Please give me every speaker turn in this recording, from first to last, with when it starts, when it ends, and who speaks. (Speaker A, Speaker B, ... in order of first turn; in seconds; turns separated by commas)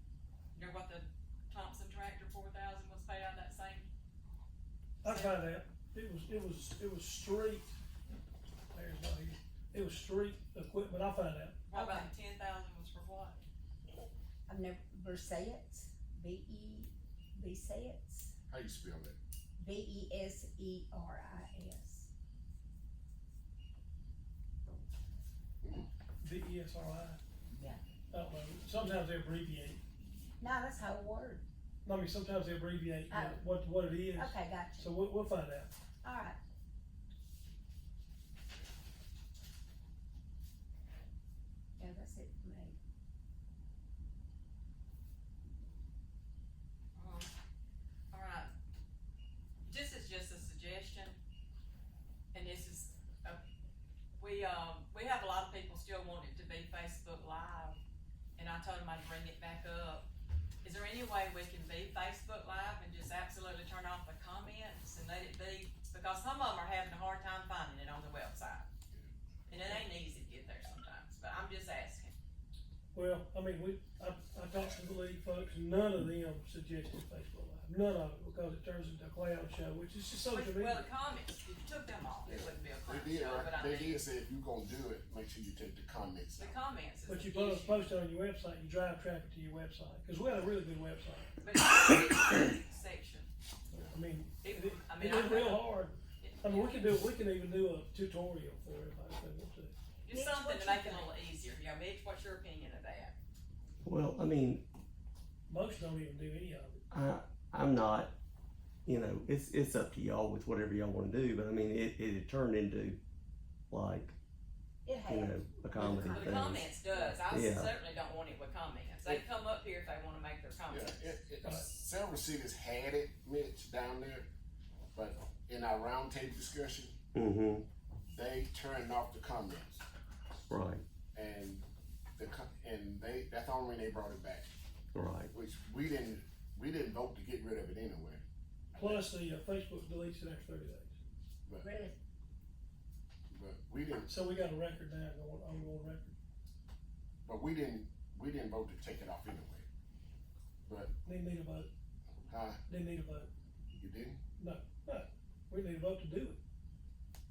Speaker A: 0.5-3.9, Speaker B: 5.0-7.7, Speaker A: 5.0-5.4, Speaker B: 8.7-11.6, Speaker A: 11.7-13.4, Speaker C: 11.7-12.1, Speaker C: 14.5-18.3, Speaker D: 18.5-19.1, Speaker C: 19.6-22.1, Speaker D: 25.6-25.9, Speaker B: 26.2-27.2, Speaker C: 27.5-27.8, Speaker B: 28.1-29.8, Speaker C: 30.4-31.4, Speaker B: 31.8-35.7, Speaker C: 33.1-33.4, Speaker C: 34.1-34.9, Speaker C: 36.0-36.4, Speaker C: 41.8-42.8, Speaker A: 47.0-47.3, Speaker A: 48.1-48.5, Speaker A: 49.6-51.2, Speaker A: 52.3-53.4, Speaker A: 54.2-57.8, Speaker A: 58.4-60.1, Speaker A: 60.6-68.7, Speaker A: 69.5-72.1, Speaker B: 72.9-80.9, Speaker A: 80.3-84.0, Speaker D: 82.2-86.5, Speaker A: 86.4-87.9, Speaker B: 87.0-91.4, Speaker A: 91.4-93.3, Speaker B: 93.7-100.7, Speaker A: 94.4-96.8, Speaker A: 100.0-103.1, Speaker E: 103.8-104.6, Speaker B: 105.5-106.8, Speaker E: 106.9-108.1, Speaker E: 108.8-113.0, Speaker E: 113.7-114.2, Speaker C: 114.8-116.6, Speaker E: 115.1-116.7, Speaker A: 116.0-121.6, Speaker E: 117.3-117.7, Speaker D: 120.7-124.3, Speaker D: 124.9-127.0, Speaker E: 127.1-127.6, Speaker D: 128.1-129.8, Speaker E: 130.5-130.8, Speaker D: 131.1-131.6, Speaker D: 132.2-134.5, Speaker E: 134.9-135.3, Speaker D: 135.3-138.2, Speaker D: 138.7-139.1, Speaker B: 138.8-141.0, Speaker C: 141.6-141.9, Speaker D: 143.3-144.1, Speaker B: 144.1-146.1, Speaker D: 147.2-149.6, Speaker D: 150.6-150.9, Speaker B: 151.0-151.7, Speaker D: 152.3-152.6, Speaker B: 152.7-153.3, Speaker D: 153.7-154.2, Speaker B: 154.4-156.4